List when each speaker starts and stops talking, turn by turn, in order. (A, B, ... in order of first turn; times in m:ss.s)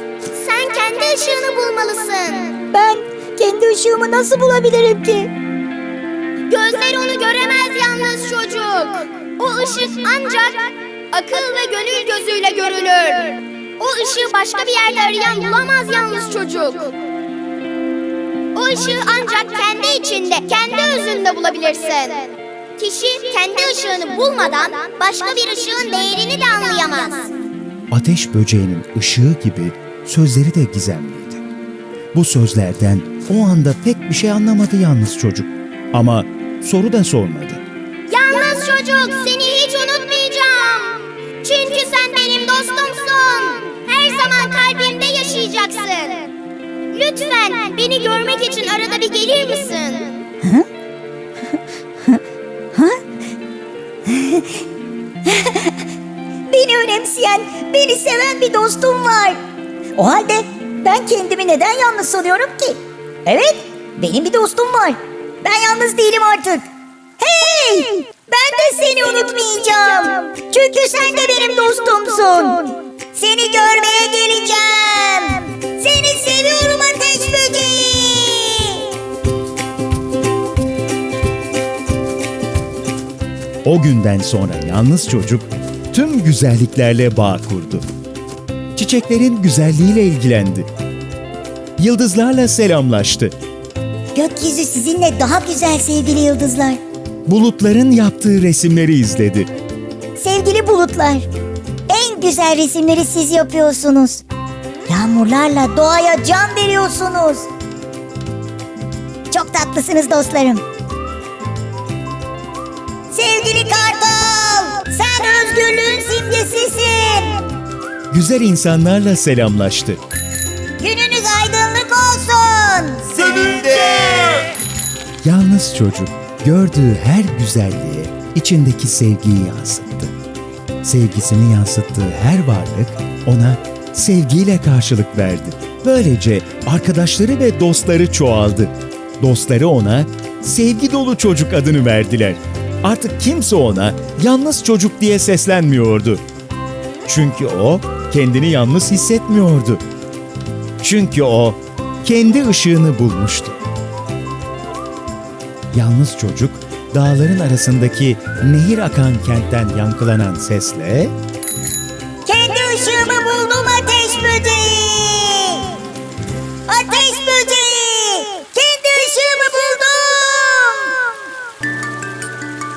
0:00.3-0:02.6 A
0:02.7-0:05.3 B
0:06.5-0:17.0 A
0:18.5-0:27.3 A
0:27.9-0:31.4 C
0:32.1-0:37.6 C
0:38.1-0:46.3 A
0:46.9-0:50.2 A
0:50.4-0:50.7 B
0:52.7-0:53.0 B
0:54.1-0:54.6 B
0:55.2-0:55.8 B
0:56.5-0:59.4 B
1:00.0-1:06.6 B
1:07.2-1:18.9 B
1:23.6-1:27.9 C
1:28.8-1:30.7 C
1:31.8-1:33.3 C
1:34.1-1:36.8 B
1:37.3-1:39.5 C
1:40.2-1:41.3 B
1:41.9-1:44.2 B
1:44.9-1:47.5 B
1:49.3-1:50.6 B
1:53.1-1:57.4 B
1:58.1-2:00.0 C
2:00.8-2:03.8 B
2:03.2-2:04.5 C
2:05.2-2:10.1 C
2:10.8-2:26.2 C
2:27.1-2:29.8 C
2:30.8-2:33.6 C
2:35.7-2:41.1 C
2:42.2-2:45.8 B
2:46.7-2:51.0 B